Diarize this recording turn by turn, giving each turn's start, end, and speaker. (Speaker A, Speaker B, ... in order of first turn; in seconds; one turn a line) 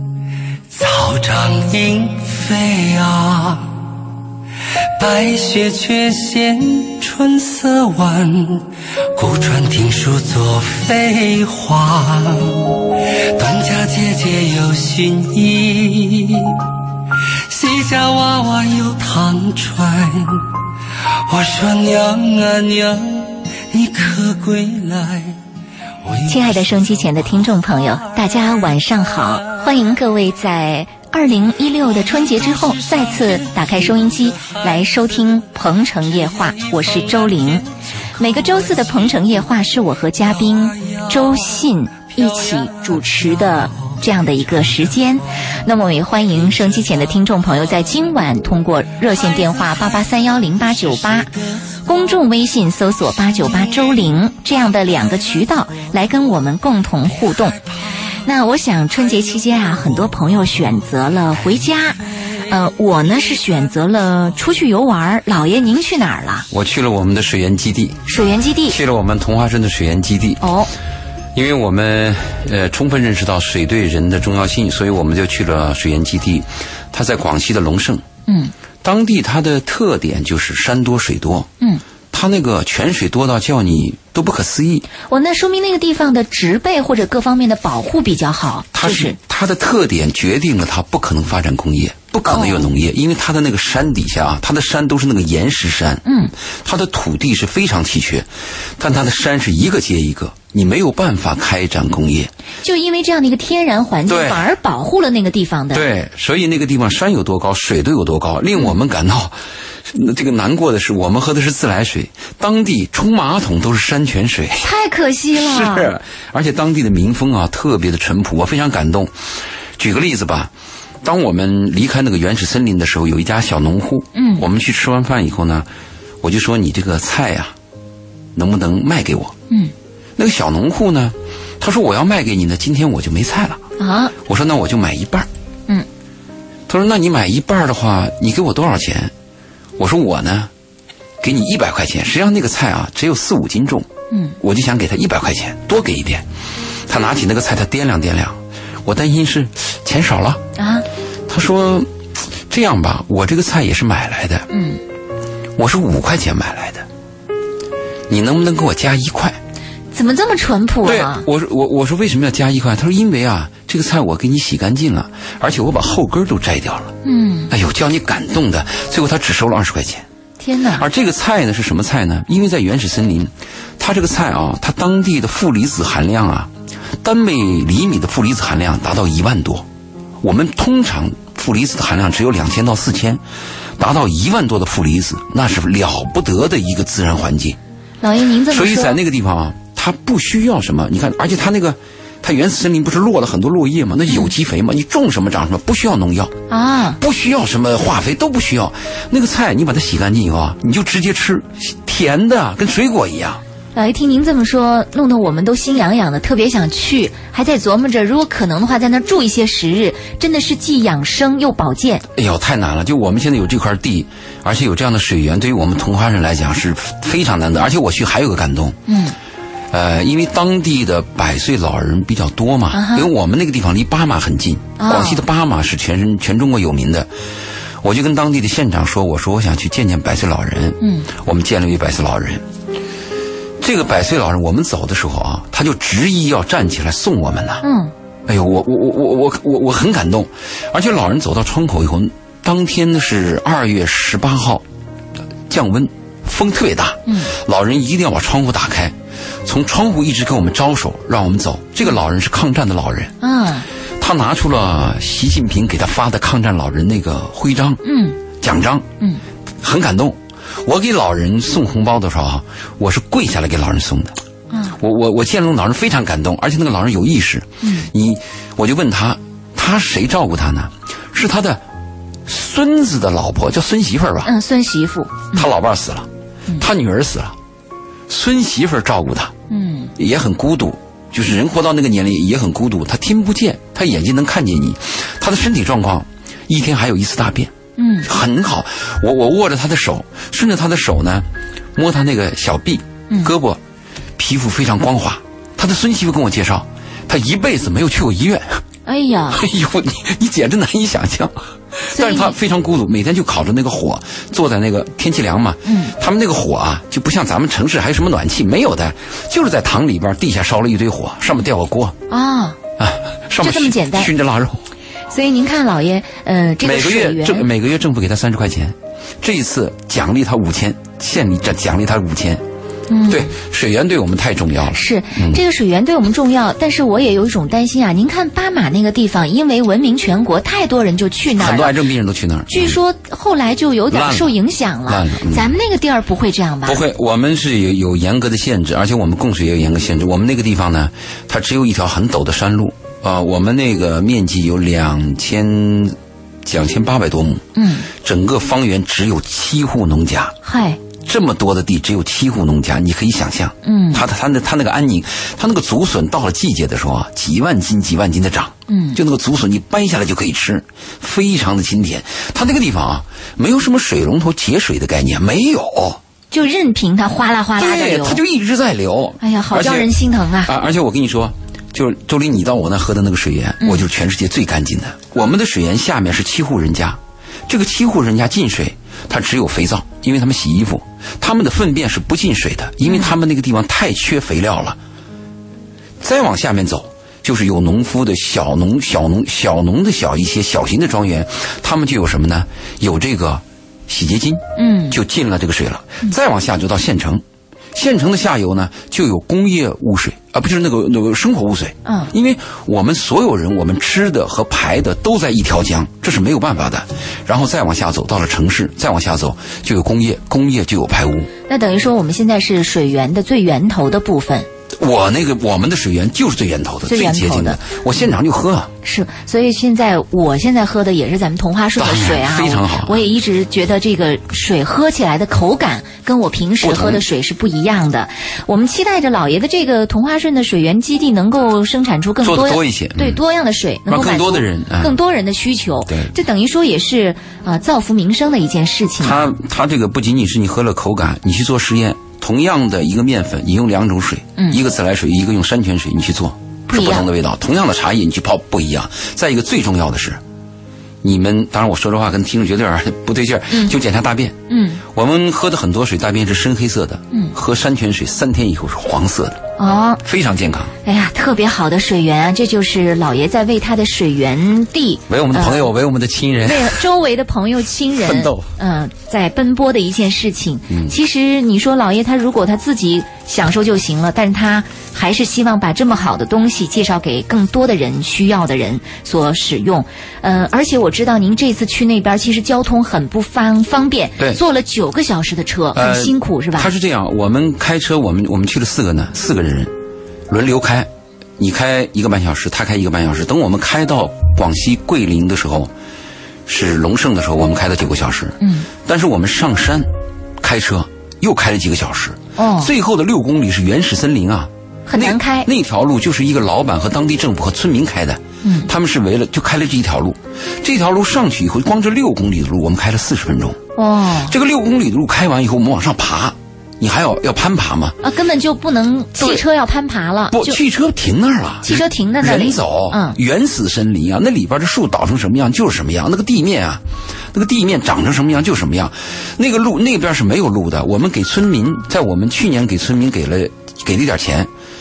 Speaker A: 0.7-3.7
Speaker A: 5.0-16.6
Speaker A: 17.5-20.5
Speaker A: 21.3-25.4
Speaker A: 26.0-26.4
Speaker B: 26.3-51.3
Speaker B: 51.9-57.6
Speaker B: 58.2-66.5
Speaker C: 66.5-68.0
Speaker B: 68.1-68.8
Speaker C: 68.7-70.4
Speaker B: 70.4-70.7
Speaker C: 71.3-78.0
Speaker B: 78.3-78.5
Speaker C: 78.8-81.5
Speaker C: 82.1-84.9
Speaker B: 85.1-89.2
Speaker C: 88.7-96.0
Speaker B: 92.3-92.7
Speaker B: 96.0-96.3
Speaker C: 96.6-102.3
Speaker B: 102.6-105.9
Speaker C: 104.1-104.5
Speaker C: 105.7-109.4
Speaker C: 109.9-114.7
Speaker B: 114.6-115.9
Speaker C: 115.3-119.1
Speaker C: 119.8-120.5
Speaker C: 121.0-125.7
Speaker B: 124.2-124.5
Speaker C: 126.2-127.5
Speaker C: 128.3-129.3
Speaker C: 130.2-133.6
Speaker B: 133.8-134.1
Speaker C: 134.2-135.3
Speaker C: 136.7-139.1
Speaker C: 139.8-140.5
Speaker C: 141.2-143.9
Speaker B: 144.1-144.4
Speaker C: 144.4-146.3
Speaker C: 146.9-150.4
Speaker B: 150.6-150.9
Speaker C: 151.3-151.9
Speaker C: 152.5-154.5
Speaker B: 154.5-154.8
Speaker C: 155.6-156.9
Speaker C: 158.1-159.4
Speaker B: 159.9-161.2
Speaker C: 160.8-166.9
Speaker B: 167.1-167.5
Speaker C: 167.5-170.1
Speaker B: 170.4-170.9
Speaker C: 170.8-179.7
Speaker C: 180.2-183.2
Speaker C: 183.8-187.6
Speaker B: 188.0-189.0
Speaker C: 188.5-196.3
Speaker B: 196.5-197.0
Speaker C: 197.0-203.4
Speaker B: 203.8-212.1
Speaker C: 212.2-218.8
Speaker B: 218.9-219.2
Speaker C: 219.7-227.1
Speaker B: 222.7-223.1
Speaker B: 224.8-225.2
Speaker C: 227.8-232.4
Speaker B: 230.8-231.1
Speaker C: 233.6-237.7
Speaker B: 237.6-237.9
Speaker C: 238.3-244.6
Speaker C: 245.5-253.1
Speaker B: 247.1-247.3
Speaker B: 253.2-253.7
Speaker C: 254.0-257.8
Speaker B: 257.8-258.2
Speaker C: 258.4-258.9
Speaker C: 259.6-264.1
Speaker B: 264.5-264.8
Speaker C: 264.8-271.6
Speaker B: 267.6-267.9
Speaker C: 272.3-274.3
Speaker B: 274.2-275.5
Speaker C: 275.3-277.4
Speaker C: 278.1-279.3
Speaker B: 279.5-279.9
Speaker C: 280.0-287.5
Speaker B: 287.8-288.1
Speaker C: 288.0-293.6
Speaker C: 294.2-298.6
Speaker B: 298.9-299.4
Speaker C: 299.3-312.0
Speaker B: 301.9-302.4
Speaker B: 305.6-305.9
Speaker B: 312.1-312.6
Speaker C: 312.8-314.6
Speaker B: 313.4-314.1
Speaker B: 315.1-317.5
Speaker C: 316.6-322.4
Speaker B: 322.9-323.3
Speaker C: 323.1-325.4
Speaker B: 324.7-331.8
Speaker C: 331.4-332.8
Speaker B: 332.5-336.8
Speaker C: 333.9-334.3
Speaker C: 334.9-335.5
Speaker C: 336.7-350.4
Speaker B: 347.6-347.9
Speaker B: 350.4-350.8
Speaker C: 351.1-366.0
Speaker B: 353.6-354.0
Speaker B: 358.7-359.0
Speaker B: 366.3-368.2
Speaker C: 367.6-369.9
Speaker B: 369.2-370.5
Speaker C: 370.4-384.8
Speaker B: 382.9-383.1
Speaker C: 386.0-397.2
Speaker B: 394.6-395.0
Speaker C: 397.7-411.3
Speaker B: 401.9-402.1
Speaker B: 411.5-414.5
Speaker C: 414.8-418.7
Speaker B: 416.9-417.6
Speaker B: 418.8-439.3
Speaker C: 421.8-423.0
Speaker C: 426.6-427.0
Speaker C: 432.2-433.2
Speaker C: 433.9-434.9
Speaker C: 439.0-450.2
Speaker B: 446.7-447.1
Speaker C: 451.0-459.4
Speaker B: 454.5-454.8
Speaker B: 459.6-460.0
Speaker C: 460.0-460.7
Speaker B: 460.8-465.7
Speaker C: 465.1-466.8
Speaker B: 466.4-486.7
Speaker C: 468.0-468.5
Speaker C: 470.7-471.0
Speaker C: 485.7-489.7
Speaker C: 490.3-495.7
Speaker C: 496.5-499.9
Speaker B: 498.4-498.7
Speaker C: 500.4-513.6
Speaker B: 502.4-502.7
Speaker B: 504.9-505.5
Speaker B: 508.4-508.7
Speaker B: 513.8-514.4
Speaker C: 514.2-518.0
Speaker B: 518.0-520.6
Speaker C: 519.2-519.4
Speaker C: 520.3-526.8
Speaker B: 521.6-523.2
Speaker C: 527.3-534.5